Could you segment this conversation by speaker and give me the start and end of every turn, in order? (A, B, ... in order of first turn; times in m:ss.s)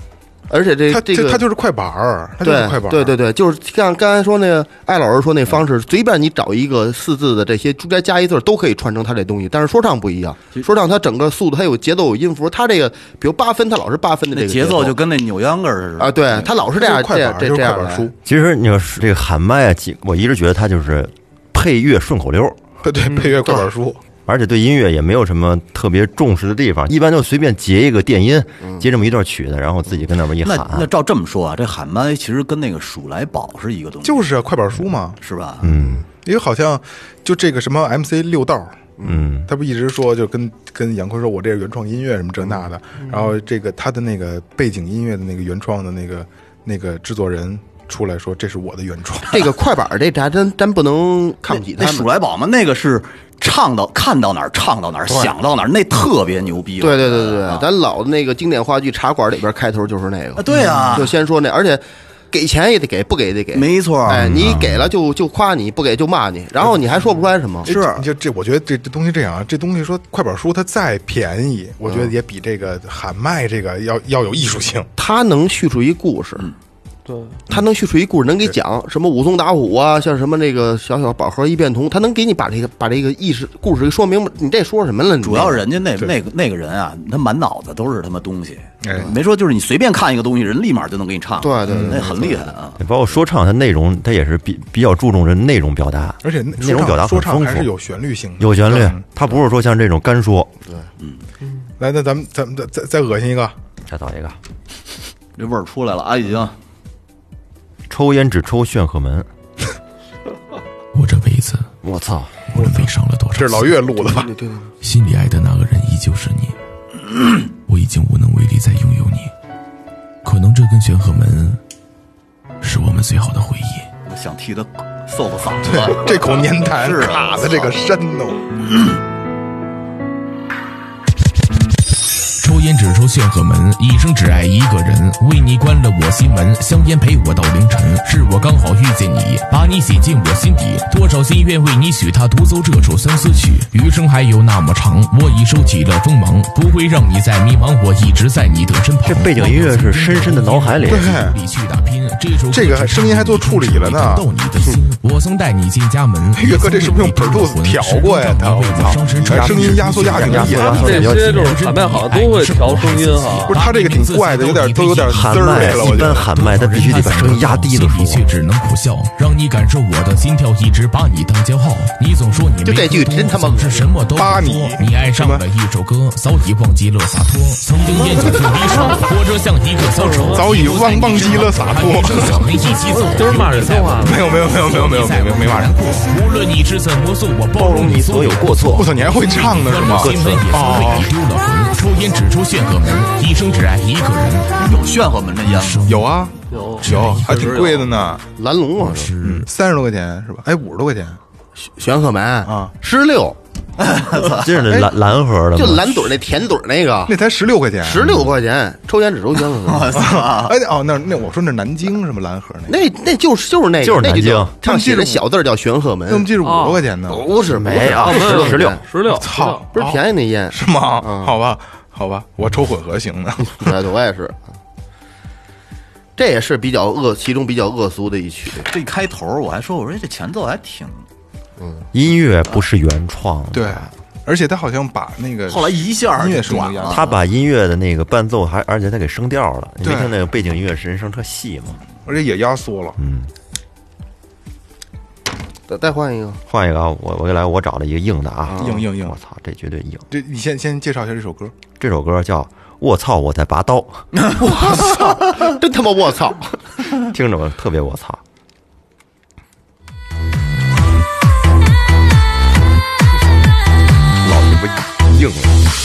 0:00.5-0:01.4 A
0:00.9-0:03.1 B
0:02.4-0:15.0 A
0:14.3-0:16.5 C
0:16.0-0:18.1 A
0:16.6-0:18.1 B
0:18.2-0:22.6 D
0:22.8-0:24.0 B
0:24.2-0:30.9 D
0:30.4-0:34.3 C
0:34.0-0:35.2 B
0:35.2-0:35.7 C
0:35.6-0:36.0 D
0:35.8-0:36.0 A
0:36.2-0:38.9 B
0:39.0-0:39.2 A
0:39.0-0:39.5 D
0:39.4-0:49.5 B
0:49.3-0:52.1 A
0:51.5-0:57.7 C
0:55.1-0:55.3 A
0:56.8-1:07.7 A
1:00.4-1:01.2 C
1:00.5-1:01.0 B
1:03.5-1:04.5 C
1:04.1-1:04.8 D
1:07.6-1:08.0 C
1:07.6-1:14.9 B
1:11.8-1:12.1 A
1:15.0-1:16.5 A
1:17.1-1:17.4 E
1:17.5-1:25.6 A
1:25.2-1:32.8 C
1:28.8-1:29.1 B
1:31.4-1:32.5 A
1:31.7-1:32.0 B
1:32.8-1:37.7 D
1:36.2-1:39.0 B
1:38.4-1:40.5 D
1:41.8-1:43.6 B
1:43.9-1:44.4 D
1:45.4-1:46.5 C
1:47.9-1:49.3 D
1:50.9-1:51.7 F
1:51.8-1:52.4 D
1:52.5-1:53.7 F
1:52.6-1:54.3 B
1:54.0-1:54.7 A
1:54.8-1:56.5 F
1:57.7-1:59.3 F
2:00.2-2:01.6 F
2:02.6-2:03.9 F
2:04.1-2:07.9 C
2:05.6-2:08.4 B
2:12.4-3:14.5 F
2:29.0-2:31.2 D
2:30.9-2:31.4 B
2:32.5-2:34.3 B
2:36.3-2:41.1 B
2:39.0-2:41.5 D
2:40.6-2:43.5 E
2:43.5-2:46.3 B
2:45.1-2:48.2 D
2:52.6-2:53.9 A
2:54.1-2:55.5 B
2:57.9-2:58.2 A
2:59.9-3:00.4 E
3:00.3-3:02.6 B
3:02.9-3:04.2 E
3:04.0-3:06.0 B
3:07.6-3:09.1 D
3:08.7-3:11.1 B
3:09.9-3:10.7 D
3:14.6-3:15.9 C
3:15.5-3:16.3 F
3:15.9-3:18.2 B
3:16.5-3:16.9 E
3:16.8-3:17.8 F
3:18.4-3:19.1 A
3:18.8-3:19.5 F
3:19.2-3:21.2 B
3:21.6-3:23.4 A
3:22.5-3:22.7 B
3:23.8-3:24.7 C
3:24.4-3:26.2 D
3:25.5-3:27.2 A
3:27.1-3:28.1 B
3:27.8-3:30.1 A
3:29.6-3:30.6 C
3:30.0-3:32.8 B
3:32.7-3:36.3 A
3:33.8-3:34.6 D
3:34.6-3:35.2 B
3:36.1-3:37.3 B
3:36.4-3:36.8 E
3:37.1-3:38.8 A
3:37.5-3:38.8 D
3:37.8-3:39.6 E
3:39.1-3:40.0 B
3:39.7-3:41.4 A
3:40.5-3:43.7 B
3:43.5-3:44.4 A
3:46.2-3:48.7 A
3:48.6-3:51.0 C
3:51.6-3:51.9 A
3:51.9-3:53.9 D
3:53.5-3:57.1 B
3:55.5-3:57.1 C
3:56.9-4:01.8 D
3:59.8-4:00.2 B
4:02.0-4:03.0 B
4:03.0-4:03.3 D
4:05.7-4:06.4 A
4:06.5-4:10.0 D
4:08.5-4:08.8 A
4:08.6-4:09.1 B
4:10.1-4:11.6 B
4:11.8-4:14.1 D
4:14.4-4:16.6 A
4:17.0-4:18.2 D
4:24.2-4:25.6 D